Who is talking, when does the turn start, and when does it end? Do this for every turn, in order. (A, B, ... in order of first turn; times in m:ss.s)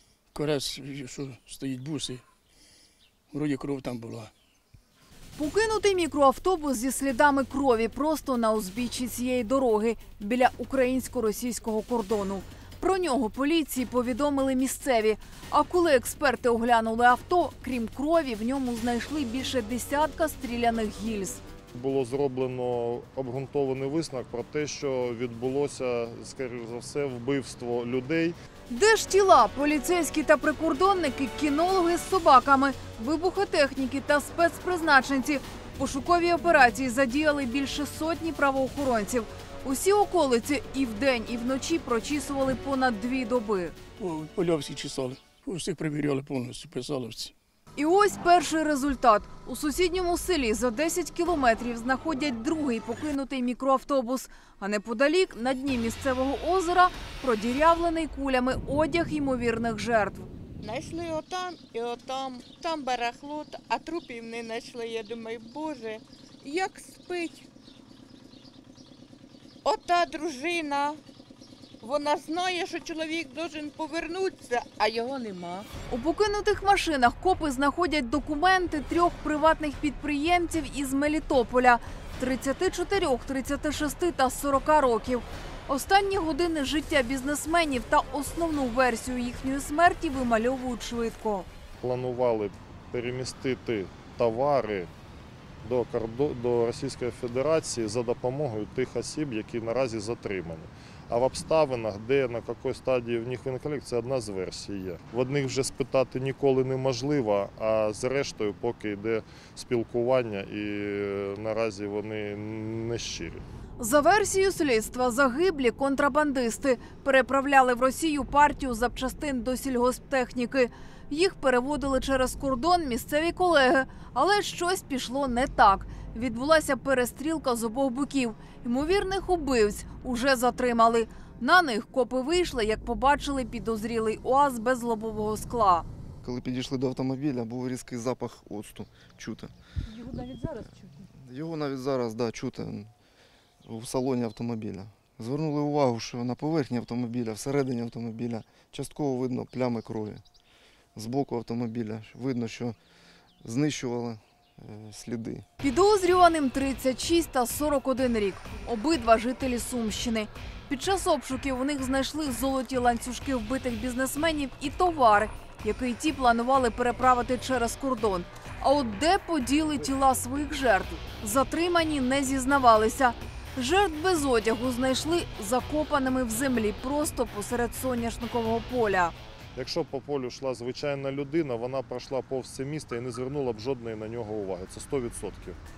0:00.3-0:02.2 A
0:03.3-0:04.3 A
0:05.4-0:21.4 B
0:21.7-0:28.4 C
0:28.7-0:43.8 B
0:44.0-0:47.3 A
0:47.8-1:00.3 B
1:00.6-1:07.4 D
1:09.6-1:11.0 D
1:11.8-1:15.7 D
1:15.9-1:31.5 B
1:31.8-1:34.9 C
1:35.6-1:53.4 C
1:53.8-2:15.8 B
2:16.2-2:19.5 E
2:20.2-2:20.5 A
2:21.0-2:22.9 E
2:23.6-2:30.2 E
2:30.9-2:32.8 E
2:33.4-2:35.5 E
2:35.6-2:59.2 B
2:59.5-3:05.6 C